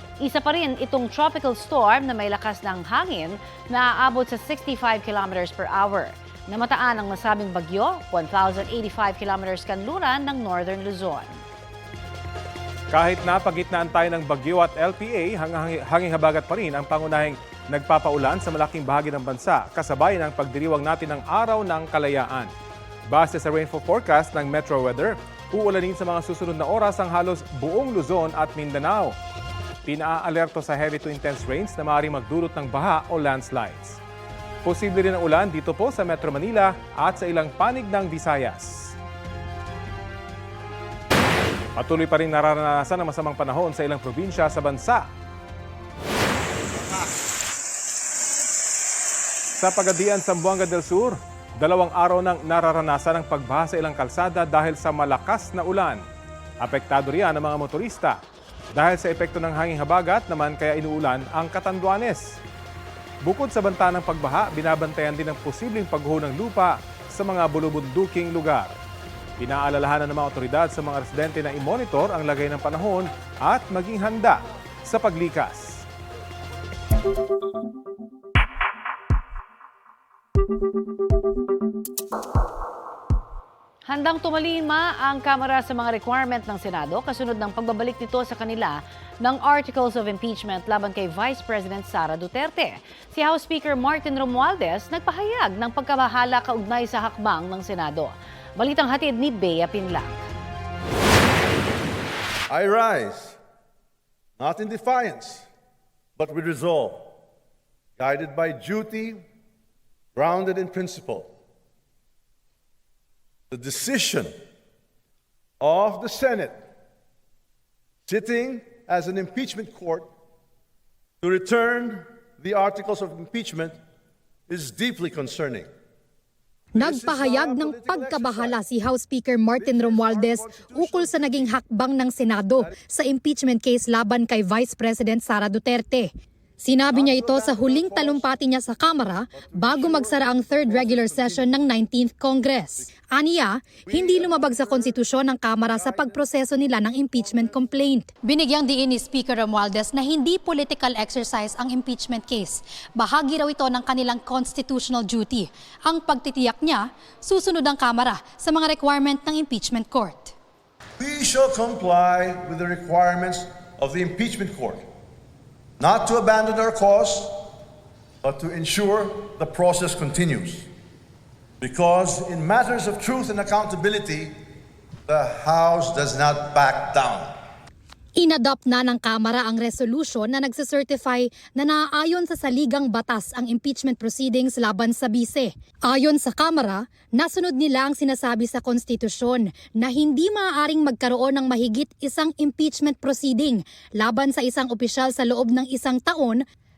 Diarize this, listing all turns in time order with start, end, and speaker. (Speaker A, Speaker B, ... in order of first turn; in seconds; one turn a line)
Speaker A: 0.2-11.4
Speaker B: 12.9-22.5
Speaker B: 23.1-29.1
Speaker B: 29.9-34.0
Speaker B: 34.6-38.9
Speaker B: 41.8-45.0
Speaker B: 49.6-56.0
Speaker B: 56.6-58.2
Speaker B: 58.8-62.4
Speaker B: 63.2-68.7
Speaker B: 69.4-75.8
Speaker A: 83.9-100.2
Speaker C: 102.5-103.4
Speaker C: 104.4-105.5
Speaker C: 106.2-107.1
Speaker C: 108.0-109.2
Speaker C: 110.2-111.3
Speaker C: 113.5-114.3
Speaker C: 115.6-116.6
Speaker C: 118.1-120.1
Speaker C: 121.2-123.8
Speaker C: 124.5-125.7
Speaker D: 126.8-136.1
Speaker C: 126.8-128.6
Speaker C: 129.6-131.6
Speaker D: 136.6-160.3
Speaker C: 136.9-138.3
Speaker C: 139.3-141.5
Speaker C: 143.8-144.4
Speaker C: 161.0-164.9
Speaker C: 165.8-167.4
Speaker C: 168.2-170.7
Speaker C: 171.6-174.3
Speaker C: 175.1-177.4
Speaker D: 178.2-196.4